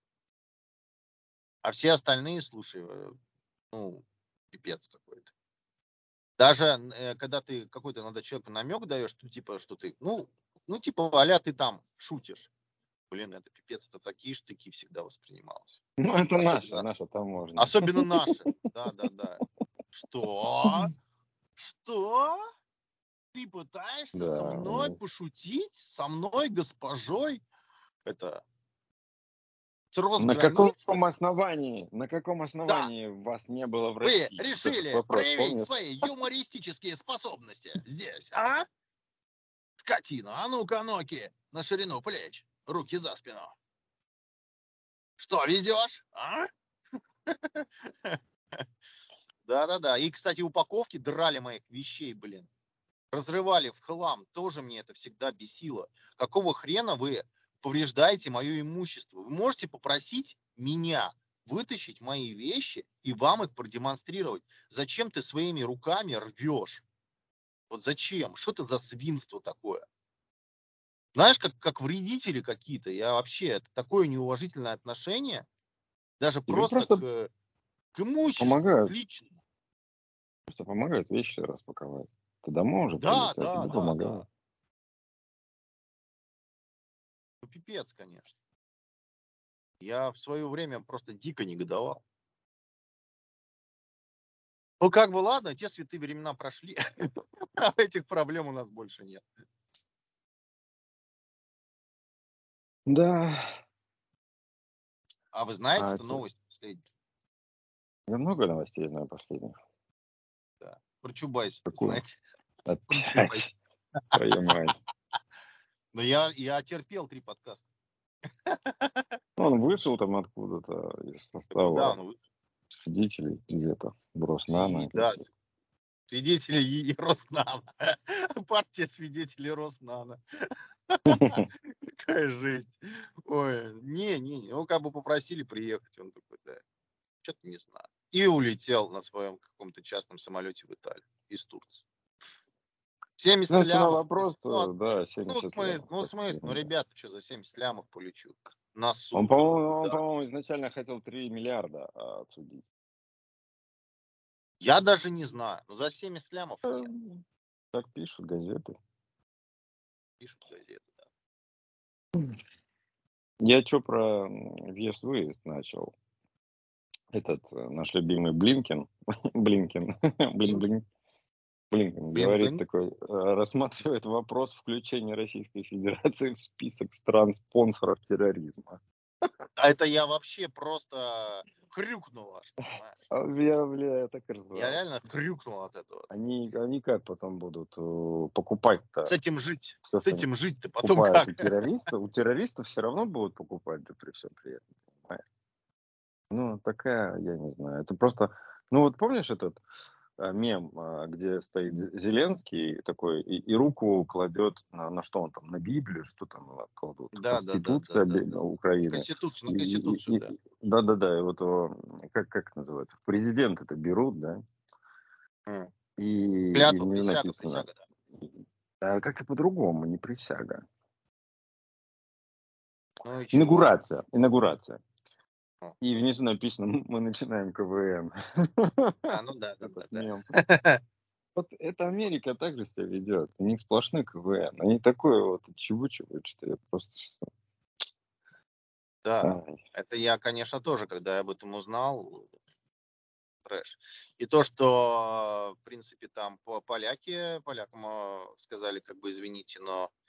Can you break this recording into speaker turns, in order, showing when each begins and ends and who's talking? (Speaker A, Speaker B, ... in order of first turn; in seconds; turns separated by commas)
Speaker A: 1.6-3.1, Speaker A: 3.7-5.3, Speaker A: 6.4-12.5, Speaker A: 13.1-15.8, Speaker B: 16.0-18.3, Speaker A: 16.4-16.9, Speaker A: 17.6-20.9, Speaker A: 21.6-22.4, Speaker A: 23.3-27.4, Speaker B: 24.1-25.0, Speaker A: 28.1-28.4, Speaker A: 29.9-31.0, Speaker B: 30.2-35.7, Speaker A: 34.0-38.7, Speaker A: 39.8-43.5, Speaker A: 45.2-46.5, Speaker A: 47.3-48.2, Speaker A: 49.5-52.5, Speaker A: 53.1-66.8, Speaker A: 67.7-69.9, Speaker A: 71.2-75.5, Speaker A: 76.2-77.3, Speaker B: 76.5-77.0, Speaker A: 77.9-79.4, Speaker B: 78.4-79.0, Speaker B: 80.5-84.3, Speaker A: 83.0-84.3, Speaker A: 87.4-88.3, Speaker A: 89.8-92.0, Speaker A: 94.8-99.2, Speaker B: 102.9-103.5, Speaker A: 105.3-106.8, Speaker B: 105.8-106.2, Speaker B: 108.1-109.5, Speaker A: 110.6-112.2, Speaker B: 111.7-112.0, Speaker B: 112.7-113.5, Speaker A: 112.9-113.5, Speaker B: 114.1-114.8, Speaker A: 115.9-117.7, Speaker A: 118.5-119.0, Speaker B: 119.4-122.0, Speaker A: 121.5-122.2, Speaker B: 122.8-125.2, Speaker A: 124.5-125.3, Speaker A: 126.1-130.2, Speaker A: 130.9-136.6, Speaker B: 131.1-131.4, Speaker A: 137.2-141.8, Speaker A: 143.2-144.7, Speaker B: 143.5-146.7, Speaker A: 145.3-150.0, Speaker B: 149.1-152.6, Speaker A: 154.6-156.9, Speaker B: 156.7-158.8, Speaker A: 160.2-161.0, Speaker B: 163.4-165.9, Speaker B: 167.1-170.8, Speaker B: 171.7-179.3, Speaker A: 172.1-172.6, Speaker A: 179.6-183.0, Speaker B: 183.1-184.8, Speaker A: 184.6-186.1, Speaker B: 186.1-189.1, Speaker A: 189.1-191.5, Speaker B: 189.9-190.3, Speaker B: 190.8-195.2, Speaker B: 196.3-199.6, Speaker B: 200.2-214.4, Speaker A: 207.1-208.4, Speaker A: 208.9-210.3, Speaker B: 216.0-220.7, Speaker A: 216.5-217.8, Speaker A: 223.0-223.7, Speaker B: 223.3-224.8, Speaker B: 225.8-230.2, Speaker A: 229.1-230.8, Speaker B: 231.3-237.2, Speaker A: 239.0-242.3, Speaker B: 239.2-239.6, Speaker A: 243.4-249.9